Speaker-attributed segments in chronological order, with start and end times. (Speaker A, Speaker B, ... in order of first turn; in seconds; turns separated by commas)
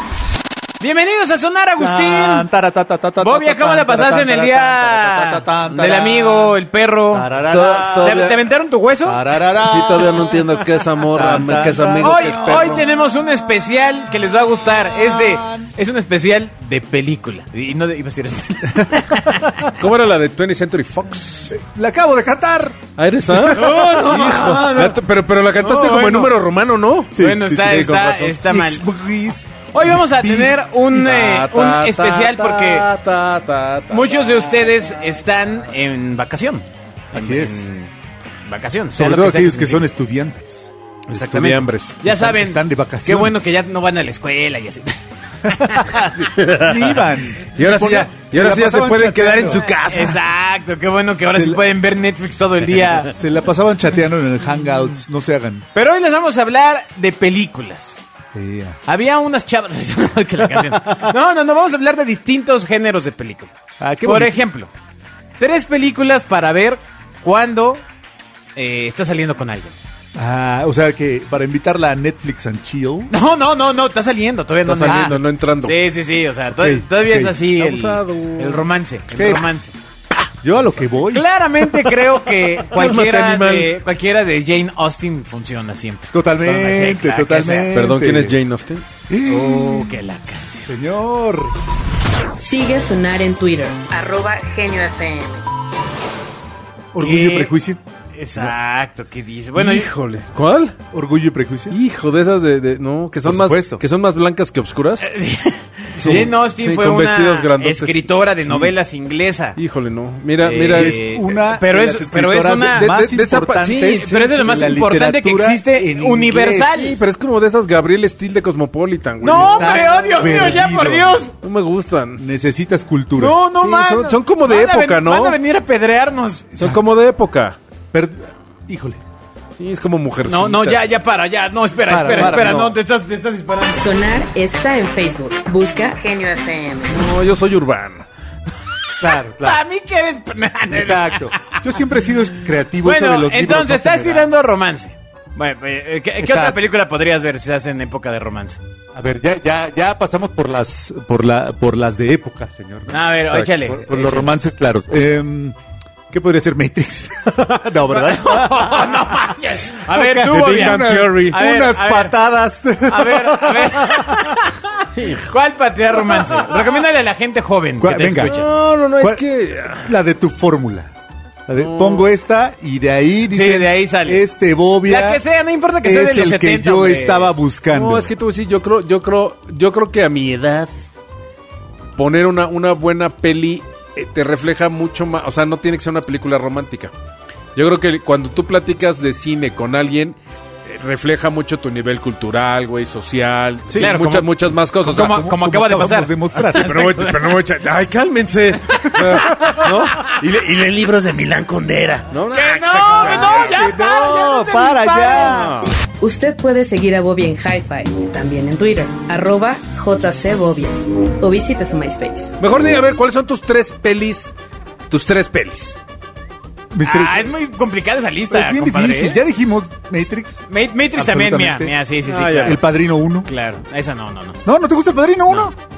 Speaker A: 0.8-2.5, Speaker B: 1.8-6.5, Speaker A: 3.2-7.3, Speaker B: 7.1-8.2, Speaker C: 7.5-8.4, Speaker A: 8.0-9.2, Speaker B: 9.0-10.5, Speaker C: 9.6-12.9, Speaker B: 11.1-12.8, Speaker A: 12.0-19.5, Speaker B: 14.9-15.7, Speaker B: 18.8-19.7, Speaker C: 19.8-21.6, Speaker B: 21.5-22.8, Speaker C: 23.0-28.3, Speaker B: 23.3-24.4, Speaker A: 23.4-25.0, Speaker A: 25.6-26.3, Speaker B: 27.1-30.6, Speaker A: 27.1-28.8, Speaker A: 29.7-32.9, Speaker C: 30.9-34.6, Speaker A: 33.9-37.9, Speaker B: 37.1-37.7, Speaker A: 38.4-39.8, Speaker B: 38.9-40.7, Speaker A: 41.1-46.1, Speaker C: 41.1-42.0, Speaker B: 42.0-43.5, Speaker B: 45.5-49.6, Speaker C: 46.3-50.2, Speaker A: 49.9-53.1, Speaker B: 51.3-51.6, Speaker B: 53.0-55.6, Speaker A: 55.7-58.0, Speaker B: 58.3-58.8, Speaker A: 58.9-64.7, Speaker B: 60.8-61.1, Speaker B: 63.8-64.4, Speaker A: 65.4-67.8, Speaker A: 68.5-69.7, Speaker B: 70.2-73.1, Speaker A: 73.1-79.7, Speaker C: 74.6-75.8, Speaker B: 74.9-75.2, Speaker B: 76.6-77.4, Speaker C: 77.5-78.7, Speaker B: 79.1-79.5, Speaker B: 80.4-82.2, Speaker A: 81.0-87.7, Speaker C: 82.7-83.7, Speaker B: 86.1-88.4, Speaker C: 87.7-88.8, Speaker B: 89.1-90.0, Speaker A: 89.2-90.7, Speaker B: 90.7-91.5, Speaker D: 92.4-95.4, Speaker B: 96.9-97.8, Speaker A: 97.0-97.5, Speaker A: 98.1-99.9, Speaker C: 99.5-100.8, Speaker B: 100.9-101.8, Speaker C: 101.7-105.0, Speaker B: 103.2-103.8, Speaker A: 105.0-109.6, Speaker C: 106.0-108.7, Speaker B: 106.0-106.3, Speaker C: 109.5-111.0, Speaker A: 110.4-112.9, Speaker B: 110.7-116.9, Speaker C: 112.7-114.2, Speaker A: 113.8-117.0, Speaker C: 116.7-120.1, Speaker A: 119.2-121.3, Speaker B: 119.3-121.2, Speaker C: 121.4-122.2, Speaker B: 122.2-123.8, Speaker A: 123.2-126.6, Speaker C: 123.6-125.4, Speaker C: 126.5-127.6, Speaker B: 127.9-129.0, Speaker C: 129.6-130.9, Speaker A: 130.3-133.8, Speaker B: 131.8-132.7, Speaker C: 131.9-132.7, Speaker D: 133.7-137.0, Speaker C: 136.9-138.0, Speaker B: 139.0-139.6, Speaker A: 139.2-141.6, Speaker B: 140.7-144.3, Speaker A: 142.8-148.6, Speaker B: 146.2-146.6, Speaker B: 148.9-155.6, Speaker A: 152.9-154.3, Speaker B: 156.1-159.1, Speaker A: 157.8-162.1, Speaker B: 159.8-164.4, Speaker C: 160.2-161.4, Speaker A: 162.9-168.5, Speaker C: 164.9-165.3, Speaker B: 167.8-168.4, Speaker C: 168.2-169.9, Speaker B: 169.0-170.9, Speaker B: 171.5-175.2, Speaker C: 171.6-172.1, Speaker A: 173.3-174.2, Speaker A: 174.8-177.3, Speaker B: 175.8-178.1, Speaker C: 177.7-180.7, Speaker C: 182.0-186.9, Speaker C: 187.5-195.2, Speaker B: 193.7-194.0, Speaker A: 193.8-197.4, Speaker B: 194.8-196.8, Speaker C: 196.5-203.6, Speaker A: 198.8-199.9, Speaker A: 202.3-205.4, Speaker B: 203.1-205.6, Speaker C: 205.2-205.7, Speaker D: 206.0-212.3, Speaker C: 212.4-214.3, Speaker C: 214.9-215.8, Speaker B: 216.7-217.3, Speaker A: 216.8-219.2, Speaker B: 218.3-221.8, Speaker A: 220.5-222.6, Speaker C: 222.0-222.6, Speaker B: 222.4-223.3, Speaker A: 223.2-224.4, Speaker B: 224.4-225.5